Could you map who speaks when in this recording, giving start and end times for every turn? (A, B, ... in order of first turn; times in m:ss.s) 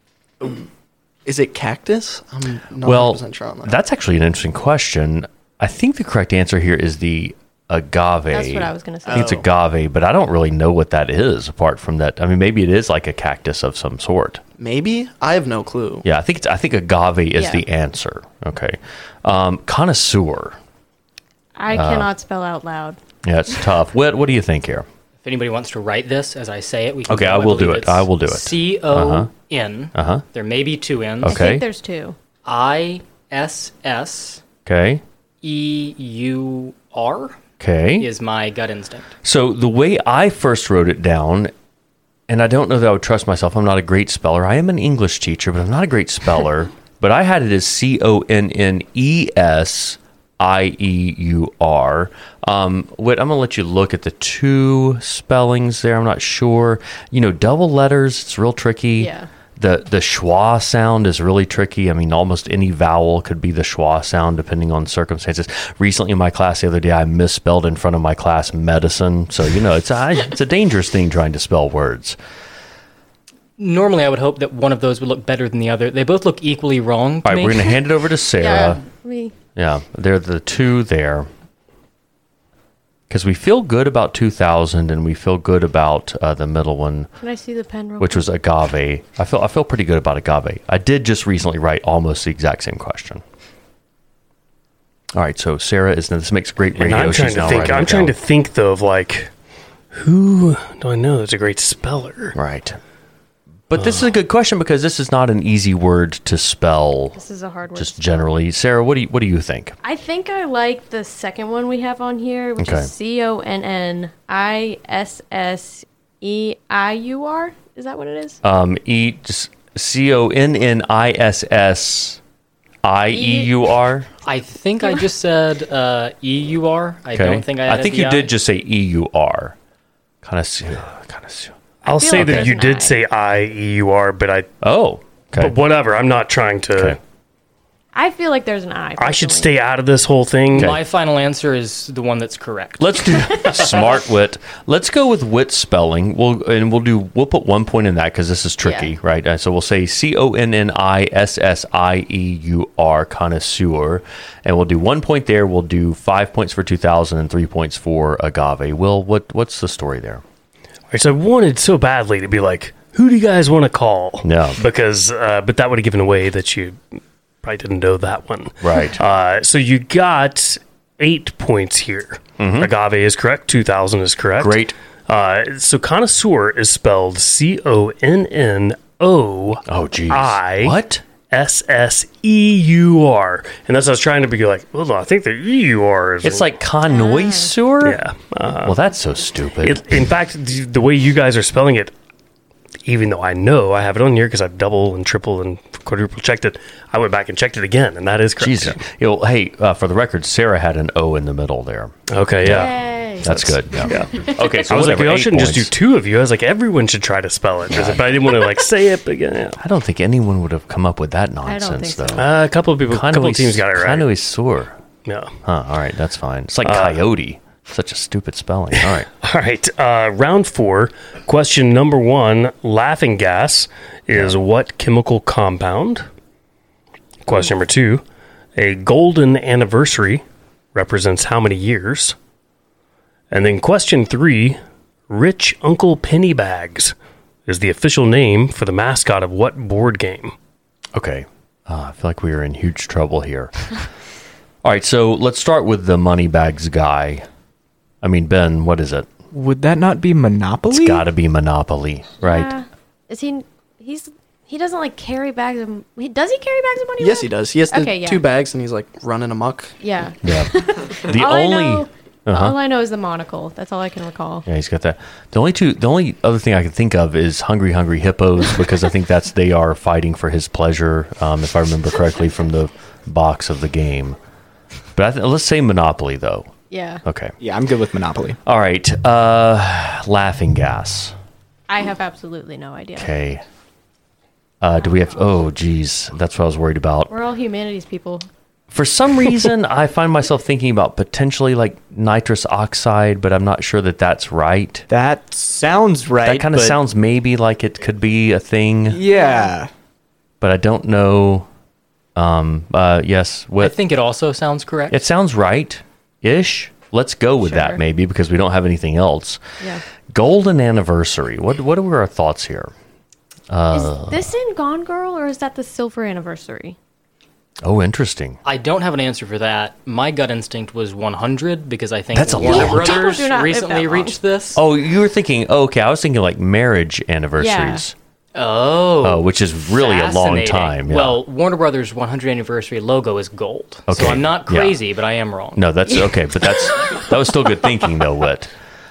0:01.2-0:03.8 A
0:02.8-0:14.4 B
0:08.3-0:09.4 C
0:09.1-0:09.4 A
0:14.6-0:16.0 A
0:16.0-0:20.6 B
0:17.4-0:17.6 C
0:21.6-0:23.0 C
0:21.7-0:22.1 B
0:23.2-0:24.8 B
0:25.2-0:31.4 D
0:27.1-0:29.3 B
0:29.9-0:30.2 B
0:31.2-0:31.6 B
0:31.2-0:32.2 C
0:32.4-0:34.4 D
0:34.6-0:35.0 B
0:35.4-0:37.4 D
0:37.6-0:38.1 B
0:38.0-0:39.1 D
0:39.2-0:41.5 B
0:42.3-1:12.2 B
0:59.0-0:59.3 C
1:13.6-1:17.8 D
1:17.2-1:18.8 B
1:18.4-1:19.3 C
1:19.6-1:21.3 B
1:23.1-1:27.1 B
1:27.2-1:28.3 C
1:28.0-1:33.2 B
1:35.1-1:38.1 B
1:36.8-1:39.3 E
1:39.9-1:42.3 E
1:42.3-1:42.8 B
1:43.7-1:47.2 B
1:47.1-1:48.2 C
1:47.8-1:49.8 B
1:49.8-1:58.4 C
1:52.6-1:52.9 B
1:58.4-2:02.2 B
2:02.8-2:04.1 B
2:03.1-2:03.5 C
2:04.2-2:08.3 D
2:07.1-2:09.6 B
2:10.2-2:11.5 B
2:11.8-2:13.0 C
2:11.8-2:14.5 E
2:12.1-2:12.5 B
2:14.6-2:15.5 B
2:15.4-2:17.0 E
2:17.9-2:19.5 C
2:19.0-2:20.7 E
2:20.5-2:23.0 D
2:20.5-2:20.8 B
2:22.8-2:40.2 B
2:23.4-2:23.8 C
2:28.6-2:28.9 C
2:40.9-2:46.8 E
2:44.2-2:44.6 B
2:47.4-3:00.8 E
2:48.6-2:49.0 B
2:52.4-2:52.7 B
2:54.4-2:54.8 B
2:59.6-3:01.0 B
3:01.3-3:06.5 E
3:06.2-3:08.0 B
3:06.9-3:07.5 C
3:07.8-3:08.8 E
3:08.6-3:09.8 B
3:09.6-3:11.9 E
3:12.8-3:18.8 E
3:18.4-3:21.9 B
3:22.1-3:29.6 E
3:22.4-3:23.4 C
3:23.2-3:25.7 B
3:27.7-3:28.1 B
3:29.6-3:32.3 B
3:31.4-3:32.3 C
3:32.2-3:34.1 E
3:32.9-3:34.8 B
3:35.0-3:35.3 E
3:35.4-3:39.1 B
3:36.6-3:37.0 E
3:38.8-3:46.1 E
3:47.2-3:48.0 E
3:48.6-3:52.2 E
3:53.3-3:56.9 E
3:57.4-4:00.3 E
4:00.9-4:03.5 B
4:04.6-4:07.2 B
4:08.0-4:09.1 B
4:09.3-4:11.1 F
4:10.7-4:12.5 B
4:12.2-4:18.2 C
4:17.0-4:19.8 A
4:19.8-4:24.4 C
4:20.2-4:22.6 B
4:24.5-4:34.2 B
4:35.0-4:36.5 B
4:36.7-4:37.0 C
4:37.0-4:37.3 B
4:37.4-4:38.4 F
4:38.4-4:41.1 B
4:41.7-4:43.1 C
4:43.0-4:43.4 B
4:44.6-4:47.1 B
4:47.1-4:48.2 C
4:48.7-4:54.8 B
4:54.9-4:56.8 F
4:56.2-4:59.0 B
4:58.9-4:59.7 F
4:59.1-4:59.5 C
5:00.4-5:01.5 B
5:02.2-5:03.8 B
5:03.6-5:05.0 D
5:04.9-5:09.4 B
5:07.4-5:07.8 C
5:10.1-5:12.7 B
5:13.5-5:14.3 B
5:13.7-5:16.8 C
5:17.6-5:18.4 B
5:18.4-5:24.6 D
5:22.1-5:23.0 B
5:22.4-5:24.2 C
5:24.5-5:27.9 B
5:27.4-5:27.8 C
5:28.3-5:35.7 D
5:29.0-5:31.2 B
5:33.9-5:34.8 B
5:35.5-5:38.5 B